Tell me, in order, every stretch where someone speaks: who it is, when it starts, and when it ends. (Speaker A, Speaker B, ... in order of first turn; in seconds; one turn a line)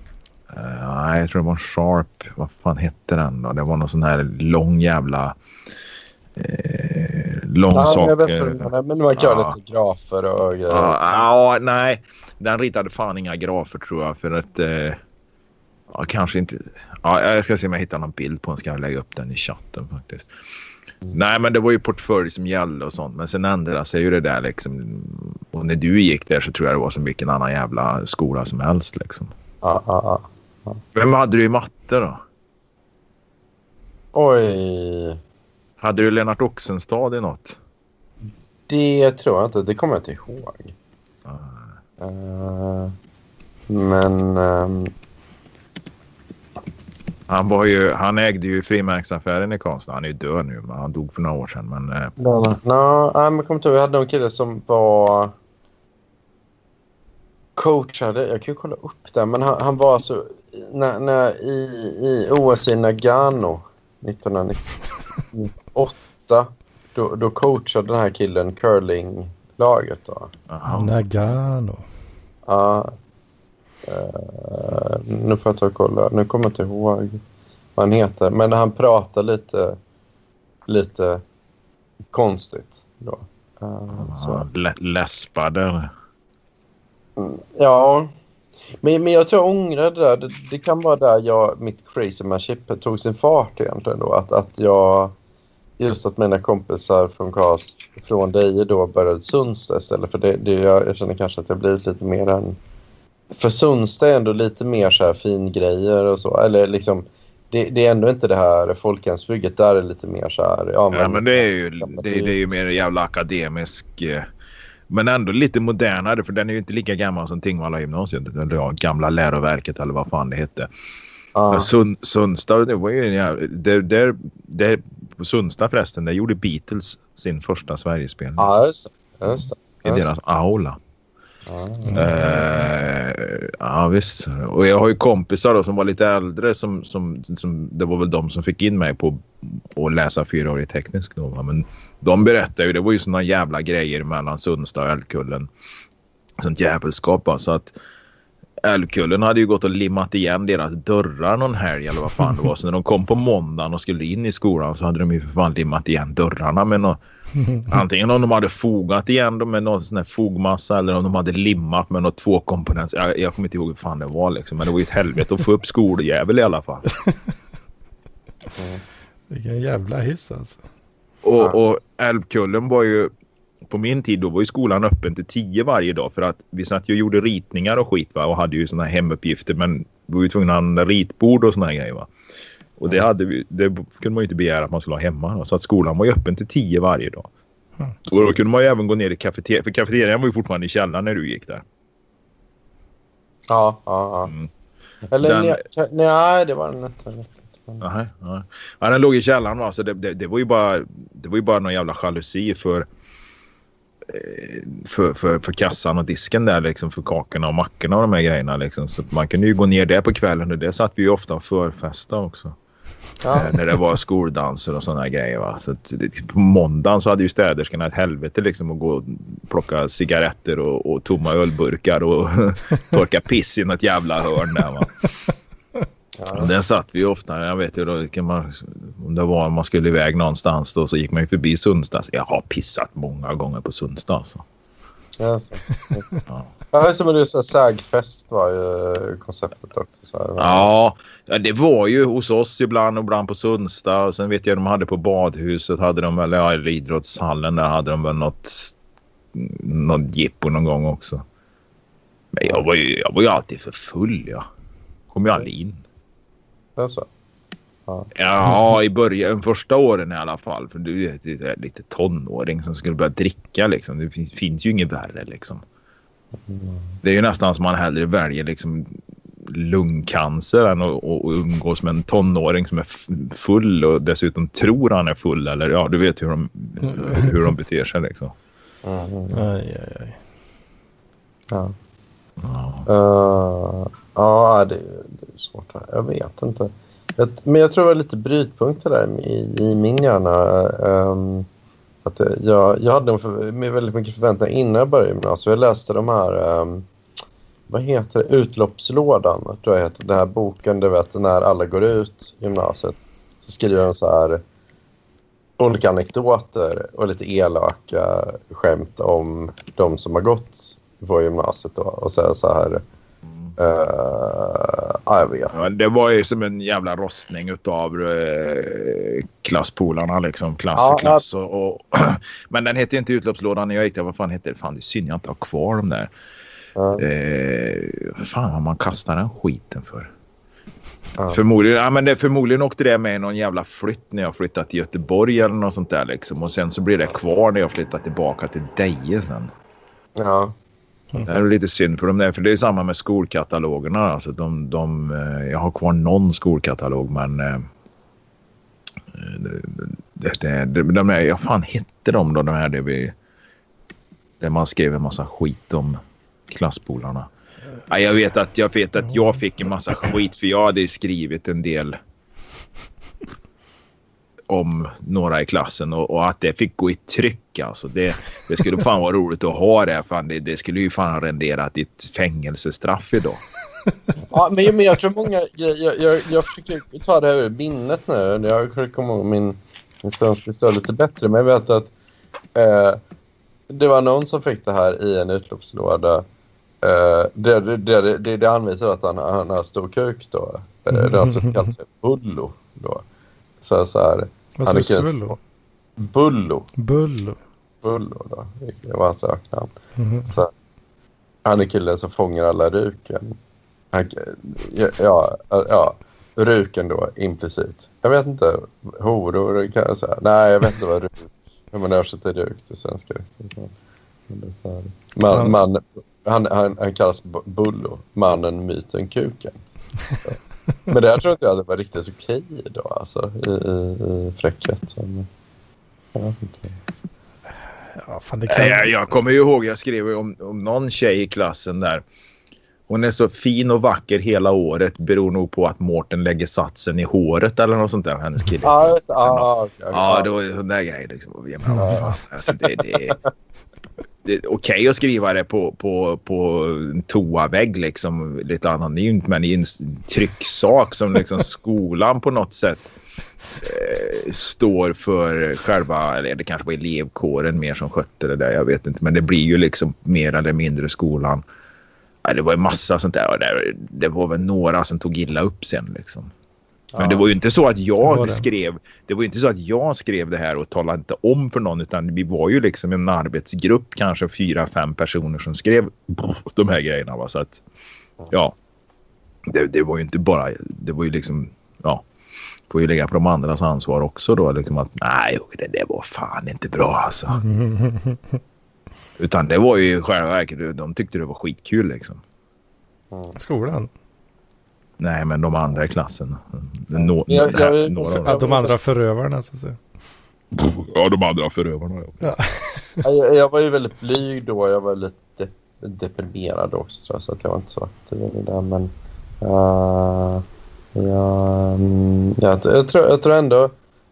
Speaker A: 0.5-5.3
Speaker A: 6.3-9.5
Speaker B: 7.7-10.9
Speaker A: 10.7-15.0
Speaker A: 15.9-20.3
Speaker A: 21.1-29.3
Speaker B: 29.6-30.8
Speaker A: 30.9-32.2
Speaker B: 34.1-35.2
Speaker A: 35.8-37.6
Speaker B: 38.7-40.7
Speaker A: 41.2-41.6
Speaker B: 42.0-42.9
Speaker B: 43.7-44.9
Speaker A: 47.3-52.1
Speaker B: 52.2-55.3
Speaker B: 57.5-64.6
Speaker B: 65.3-70.3
Speaker A: 70.5-71.3
Speaker C: 70.7-71.8
Speaker B: 72.5-72.9
Speaker B: 73.8-77.2
Speaker B: 77.8-79.8
Speaker B: 80.7-81.2
Speaker B: 82.1-84.4
Speaker A: 83.9-85.9
Speaker B: 87.2-88.1
Speaker B: 88.8-95.1
Speaker B: 95.8-102.6
Speaker B: 103.3-112.6
Speaker A: 110.9-114.3
Speaker A: 114.9-120.7
Speaker B: 121.3-121.7
Speaker A: 121.5-128.5
Speaker B: 128.4-130.0
Speaker A: 129.3-130.8
Speaker B: 131.4-132.7
Speaker A: 131.9-145.5
Speaker A: 146.4-147.7
Speaker A: 148.6-157.0
Speaker A: 157.6-166.8
Speaker B: 168.6-168.8
Speaker C: 169.3-170.6
Speaker A: 171.2-173.1
Speaker A: 173.7-182.1
Speaker A: 182.8-187.3
Speaker A: 188.1-191.6
Speaker B: 193.5-194.3
Speaker B: 195.1-197.8
Speaker A: 195.2-195.6
Speaker A: 197.8-202.9
Speaker A: 204.1-212.5
Speaker B: 213.2-213.6
Speaker A: 213.3-225.1
Speaker B: 226.2-226.5
Speaker A: 226.3-234.4
Speaker B: 235.2-236.0
Speaker B: 236.7-240.7
Speaker A: 240.4-248.7
Speaker A: 249.3-251.2
Speaker A: 252.3-254.4
Speaker A: 255.1-255.8
Speaker B: 256.8-257.1
Speaker A: 258.1-265.6
Speaker B: 266.4-267.0
Speaker A: 267.0-278.3
Speaker C: 276.8-277.3
Speaker B: 278.8-279.4
Speaker C: 279.3-280.2
Speaker A: 282.4-282.9
Speaker B: 282.9-291.5
Speaker B: 292.0-296.9
Speaker B: 297.7-304.4
Speaker B: 305.6-312.8
Speaker A: 313.3-313.5
Speaker B: 313.6-315.5
Speaker A: 315.5-326.1
Speaker B: 320.7-321.2
Speaker B: 326.8-327.0
Speaker A: 326.9-330.1
Speaker A: 331.3-339.5
Speaker B: 340.2-340.5
Speaker A: 341.2-347.7
Speaker A: 349.1-353.1
Speaker A: 354.4-357.3
Speaker A: 357.9-362.0
Speaker A: 364.5-373.4
Speaker B: 374.3-381.9
Speaker B: 382.5-383.0
Speaker B: 383.7-386.2
Speaker B: 386.8-393.0
Speaker C: 390.9-391.7
Speaker B: 393.6-395.1
Speaker C: 394.6-395.4
Speaker B: 396.0-396.7
Speaker C: 396.8-397.4
Speaker B: 397.8-399.7
Speaker C: 399.9-400.3
Speaker B: 401.4-403.4
Speaker B: 403.9-413.7
Speaker B: 414.3-419.6
Speaker C: 415.3-415.6
Speaker B: 420.2-425.3
Speaker B: 426.1-426.8
Speaker C: 427.9-428.9
Speaker A: 428.5-432.0
Speaker A: 432.9-443.2
Speaker B: 438.6-440.3
Speaker C: 441.7-442.0
Speaker B: 441.8-443.1
Speaker A: 444.2-452.9
Speaker A: 453.6-461.4
Speaker A: 462.2-466.3
Speaker B: 466.9-467.3
Speaker A: 467.0-477.6
Speaker C: 468.0-468.4
Speaker A: 478.3-478.5
Speaker A: 479.5-482.0
Speaker A: 482.7-487.4
Speaker C: 487.3-488.4
Speaker A: 489.2-492.2
Speaker B: 493.1-493.4
Speaker C: 493.4-493.9
Speaker A: 495.0-498.4
Speaker B: 496.9-498.7
Speaker C: 498.1-499.8
Speaker A: 500.5-502.3
Speaker C: 502.2-503.0
Speaker B: 503.0-513.7